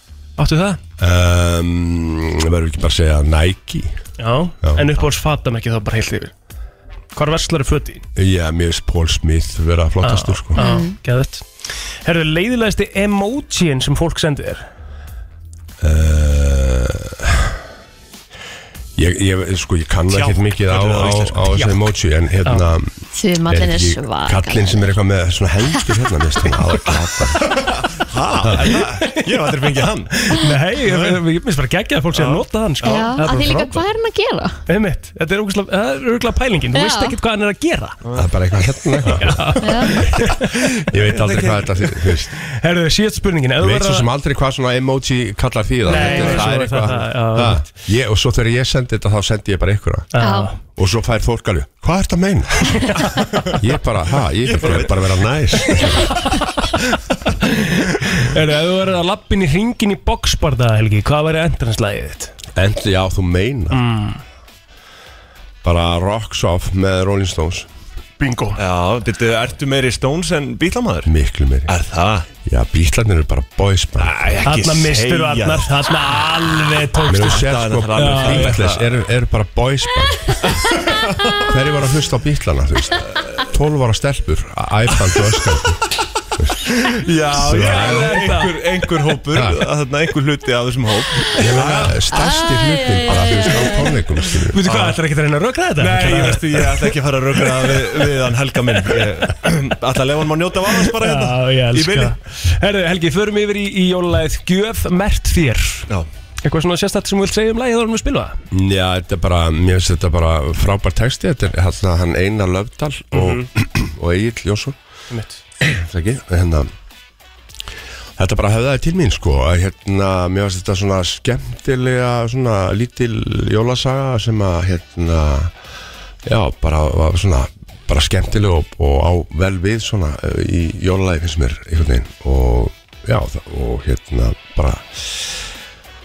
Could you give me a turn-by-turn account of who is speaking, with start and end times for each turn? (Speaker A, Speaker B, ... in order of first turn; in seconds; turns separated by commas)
Speaker A: 0.4-0.8, Speaker B: 1.0-3.9, Speaker A: 4.2-6.3, Speaker B: 4.6-5.0, Speaker A: 7.1-8.0, Speaker B: 8.2-10.6, Speaker A: 10.0-11.4, Speaker C: 10.6-10.9, Speaker A: 12.0-14.7, Speaker B: 15.8-17.5, Speaker B: 19.0-27.7, Speaker D: 20.1-21.8, Speaker A: 21.5-21.9, Speaker C: 23.1-24.8, Speaker C: 25.7-26.5, Speaker D: 27.4-30.1, Speaker B: 28.4-28.7, Speaker A: 29.0-29.3, Speaker A: 30.1-33.8, Speaker D: 30.8-31.1, Speaker D: 32.1-33.3, Speaker C: 32.8-34.6, Speaker A: 34.7-38.0, Speaker C: 36.7-37.2, Speaker D: 38.0-38.3, Speaker B: 38.1-39.6, Speaker A: 39.2-40.6, Speaker C: 39.6-40.0, Speaker D: 40.1-42.1, Speaker B: 40.9-42.4, Speaker A: 42.5-44.1, Speaker B: 43.6-50.1, Speaker A: 45.9-47.7, Speaker C: 46.0-46.3, Speaker D: 46.0-46.5, Speaker A: 50.1-50.5, Speaker C: 50.2-50.5, Speaker B: 50.6-52.9, Speaker A: 52.9-53.2, Speaker B: 53.6-56.2, Speaker D: 54.4-55.3, Speaker A: 55.7-56.4, Speaker A: 57.3-62.3, Speaker B: 62.5-63.9, Speaker A: 63.7-64.2, Speaker B: 65.6-67.7, Speaker A: 68.2-68.6, Speaker D: 68.5-71.1, Speaker B: 71.0-71.7, Speaker D: 71.7-72.3, Speaker B: 72.4-74.2, Speaker D: 74.0-76.1, Speaker A: 74.4-78.6, Speaker B: 77.0-80.4, Speaker D: 77.1-79.0, Speaker D: 80.4-81.6, Speaker B: 81.5-85.8, Speaker D: 83.0-83.4, Speaker D: 86.9-92.0, Speaker B: 87.3-88.3, Speaker A: 87.5-88.5, Speaker B: 89.3-89.6, Speaker B: 91.3-94.6, Speaker C: 92.1-94.0, Speaker A: 94.5-98.1, Speaker D: 94.6-95.0, Speaker D: 95.8-102.2, Speaker A: 98.7-99.3, Speaker A: 100.7-105.9, Speaker A: 106.4-108.4, Speaker B: 108.5-114.8, Speaker A: 113.1-113.5, Speaker A: 115.1-115.4, Speaker B: 115.6-116.7, Speaker B: 118.2-125.5, Speaker B: 126.2-135.5